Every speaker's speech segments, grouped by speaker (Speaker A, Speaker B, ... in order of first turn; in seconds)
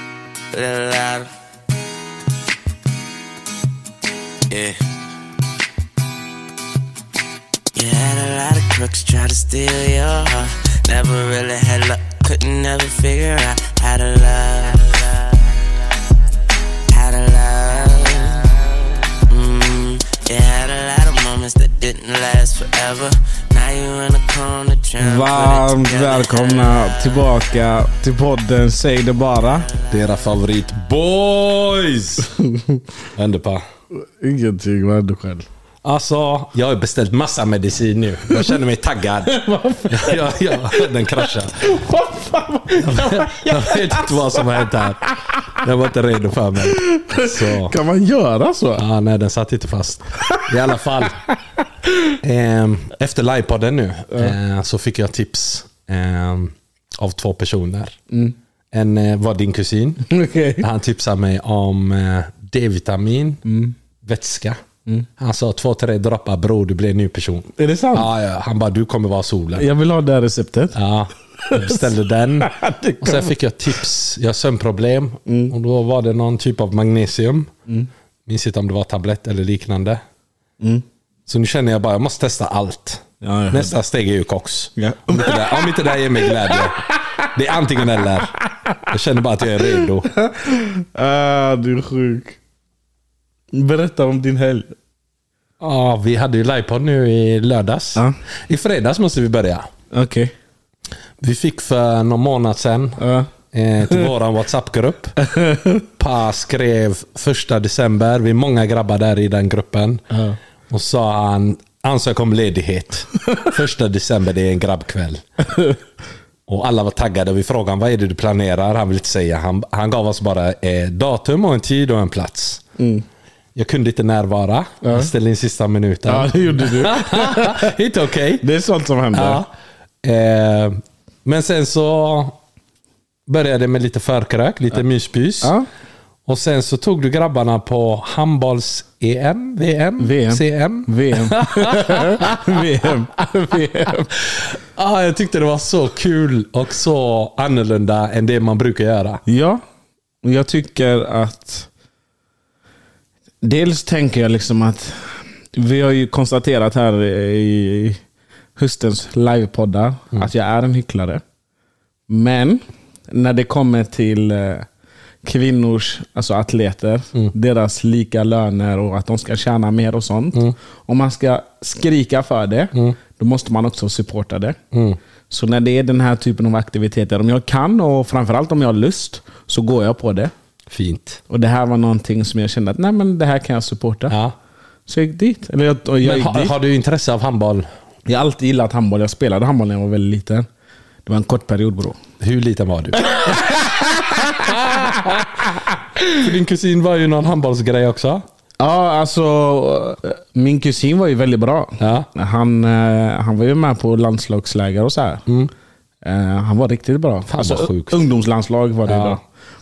Speaker A: 0.5-1.3, 4.5-4.8, 7.7-15.4, 16.9-27.4
Speaker B: 25.0-29.7, 32.4-32.8, 33.9-35.5, 39.2-45.5, 46.6-48.8, 50.2-50.5, 60.1-60.6, 63.4-63.7, 67.6-68.1, 69.5-70.8, 71.4-73.3, 75.3-75.5, 80.6-80.8, 83.2-83.7, 84.8-87.3, 89.6-92.4, 93.5-94.7, 99.9-100.3, 103.0-103.3, 105.2-105.8, 110.1-110.4, 122.8-123.0, 124.8-125.1, 126.0-127.7, 128.4-129.4, 135.4-135.7, 140.0-144.2, 149.2-149.6, 150.2-151.7, 153.4-158.0, 158.6-161.2, 162.1-164.7, 165.2-174.6, 175.3-180.3, 181.3-184.2, 184.9-186.6, 188.1-190.5, 191.1-192.0, 193.0-196.2, 198.6-205.2, 206.0-209.2
Speaker C: 29.9-32.3, 33.1-33.6, 35.8-41.8, 42.8-47.8, 48.8-51.2, 52.2-58.0, 58.7-60.0, 60.6-63.4, 64.0-64.6, 65.2-69.7, 70.7-77.5, 78.2-80.0, 81.3-88.3, 88.9-90.1, 95.6-99.7, 101.2-103.0, 103.5-105.1, 106.0-110.0, 110.7-115.2, 116.5-122.6, 123.5-128.4, 129.1-129.5, 130.0-132.4, 133.3-135.5, 136.2-143.0, 144.2-149.2, 174.7-175.0, 180.7-181.2, 184.1-184.3, 186.0-187.7, 192.2-195.4, 196.1-198.2, 201.8-202.1, 205.2-205.5, 207.3-208.1, 208.8-209.2